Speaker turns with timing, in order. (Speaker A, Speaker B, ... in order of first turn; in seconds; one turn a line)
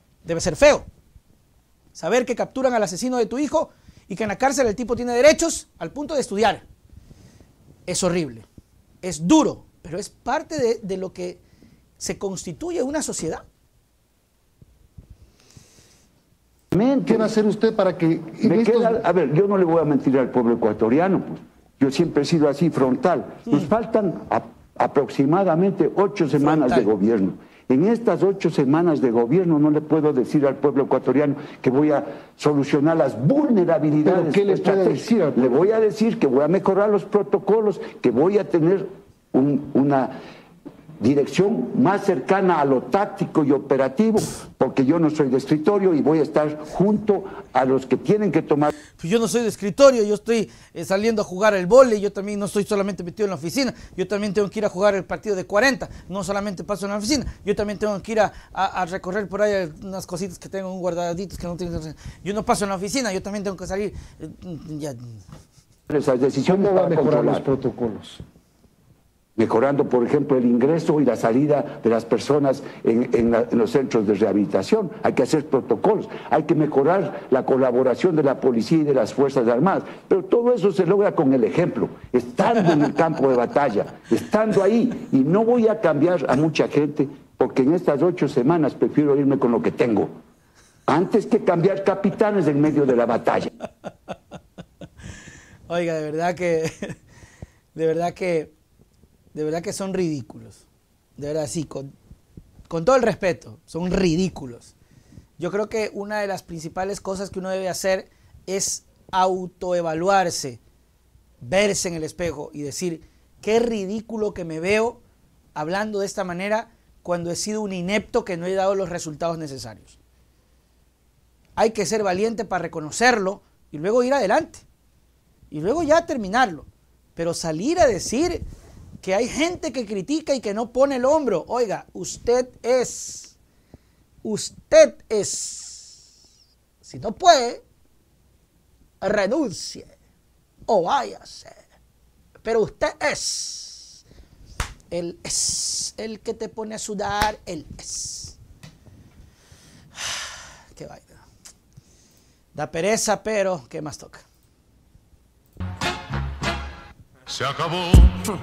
Speaker A: 0.2-0.8
Speaker A: 1.9-6.6
Speaker A: 7.8-8.4
Speaker A: 9.0-11.4
Speaker A: 12.0-13.4
Speaker B: 16.7-17.3
Speaker C: 17.1-19.0
Speaker B: 18.4-40.1
Speaker A: 26.4-26.9
Speaker C: 34.0-35.6
Speaker B: 41.0-48.7
Speaker A: 49.0-65.2
Speaker B: 65.9-67.5
Speaker C: 66.5-68.2
Speaker B: 69.3-90.1
Speaker B: 90.9-93.5
Speaker A: 95.7-97.0
Speaker A: 97.7-98.5
Speaker A: 99.3-100.6
Speaker A: 101.2-101.9
Speaker A: 102.7-104.7
Speaker A: 105.4-110.6
Speaker A: 111.4-115.0
Speaker A: 115.5-120.0
Speaker A: 121.6-124.6
Speaker A: 125.5-128.4
Speaker A: 129.0-133.3
Speaker A: 134.2-136.0
Speaker A: 136.8-137.6
Speaker A: 139.0-139.9
Speaker A: 140.7-141.6
Speaker A: 142.4-144.0
Speaker A: 144.9-148.4
Speaker A: 149.9-151.2
Speaker A: 152.5-154.2